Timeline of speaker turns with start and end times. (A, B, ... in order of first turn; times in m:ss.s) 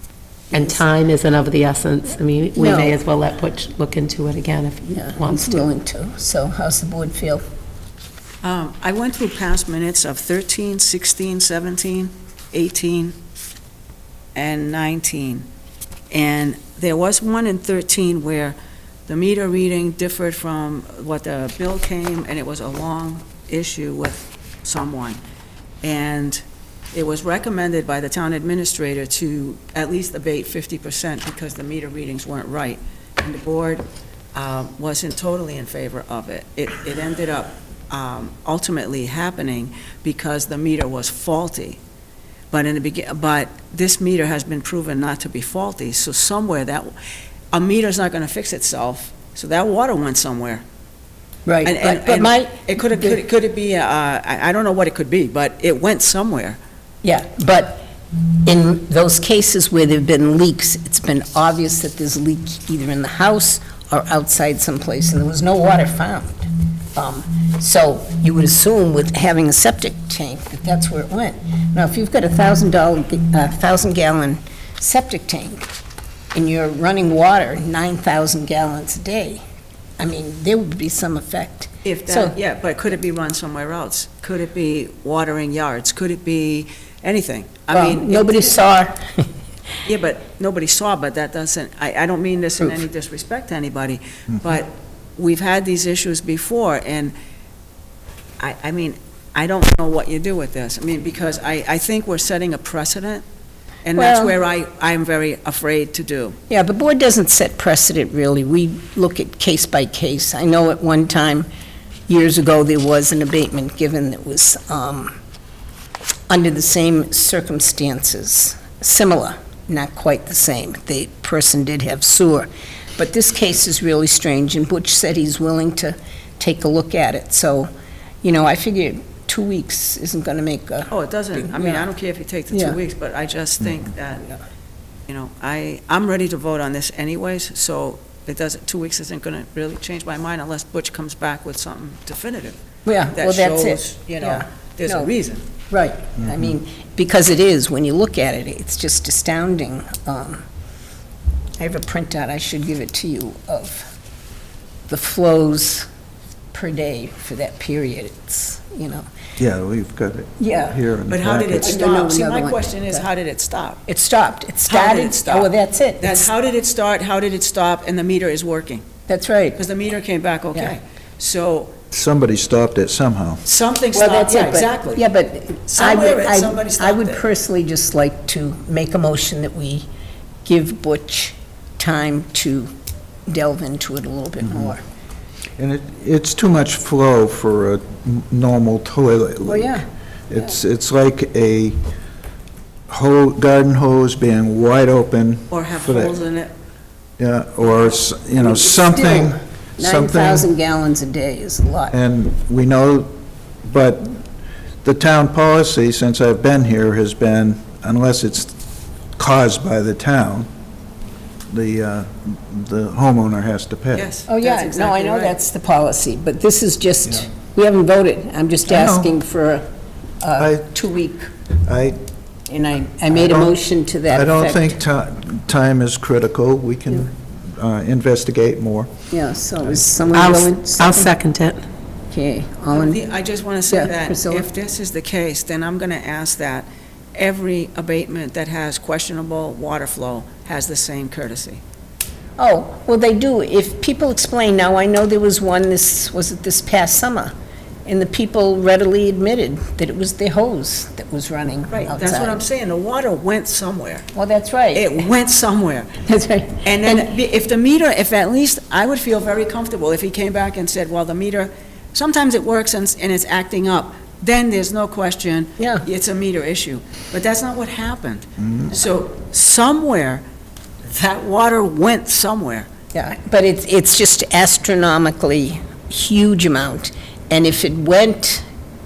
0:00.5-0:05.6 A
0:00.5-0:00.8 B
0:02.6-0:03.0 B
0:04.8-0:07.4 B
0:08.4-0:13.1 C
0:14.3-0:15.5 C
0:16.1-0:18.6 C
0:19.1-0:25.2 C
0:25.8-0:26.4 C
0:26.9-0:41.8 C
0:42.5-0:46.9 C
0:47.5-0:50.6 C
0:51.4-0:53.2 B
0:51.6-0:56.6 C
0:57.0-0:57.8 B
0:58.4-1:15.7 B
1:16.3-1:19.4 B
1:20.0-1:22.4 B
1:21.8-1:28.6 C
1:27.7-1:29.3 B
1:29.8-1:37.1 C
1:38.4-1:43.2 C
1:43.8-1:46.4 C
1:43.9-1:44.4 B
1:46.5-1:51.5 B
1:52.1-1:55.1 B
1:56.3-2:07.7 B
2:08.2-2:11.8 B
2:10.9-2:14.3 C
2:12.5-2:12.8 B
2:15.1-2:22.6 C
2:22.8-2:25.1 B
2:23.1-2:25.4 C
2:25.7-2:30.4 B
2:31.6-2:33.9 B
2:34.9-2:35.9 B
2:36.5-2:39.0 B
2:39.4-2:41.8 D
2:40.4-2:40.8 B
2:41.1-2:43.8 C
2:41.6-2:43.0 B
2:43.8-2:46.3 B
2:44.7-2:48.8 C
2:49.1-2:49.6 B
2:49.6-2:51.7 C
2:51.9-2:53.4 D
2:53.4-2:55.0 C
2:53.9-2:59.8 B
2:55.7-2:57.2 C
3:00.4-3:02.7 B
3:03.3-3:04.8 B
3:04.4-3:04.7 D
3:05.6-3:11.8 D
3:09.4-3:09.8 B
3:12.9-3:16.2 D
3:15.5-3:16.5 C
3:17.2-3:20.4 D
3:18.4-3:22.0 B
3:21.9-3:24.2 D
3:24.8-3:28.5 D
3:29.2-3:30.5 D
3:31.5-3:34.1 D
3:33.9-3:35.4 C
3:34.3-3:39.6 B
3:38.7-3:39.1 D
3:40.2-3:41.3 B
3:40.4-3:40.7 D
3:41.6-3:42.0 D
3:42.5-3:44.8 B
3:43.1-3:43.6 D
3:44.1-3:48.9 D
3:49.1-3:51.1 B
3:50.1-3:51.6 A
3:52.1-3:53.0 B
3:52.7-4:01.6 C
3:53.7-3:54.5 B
4:02.4-4:07.3 B
4:07.8-4:12.4 B
4:11.7-4:14.0 C
4:14.1-4:15.0 B
4:14.7-4:15.9 C
4:16.0-4:17.1 B
4:16.6-4:30.2 C
4:25.6-4:25.8 B
4:28.4-4:28.7 D
4:30.8-4:32.7 C
4:32.9-4:38.4 B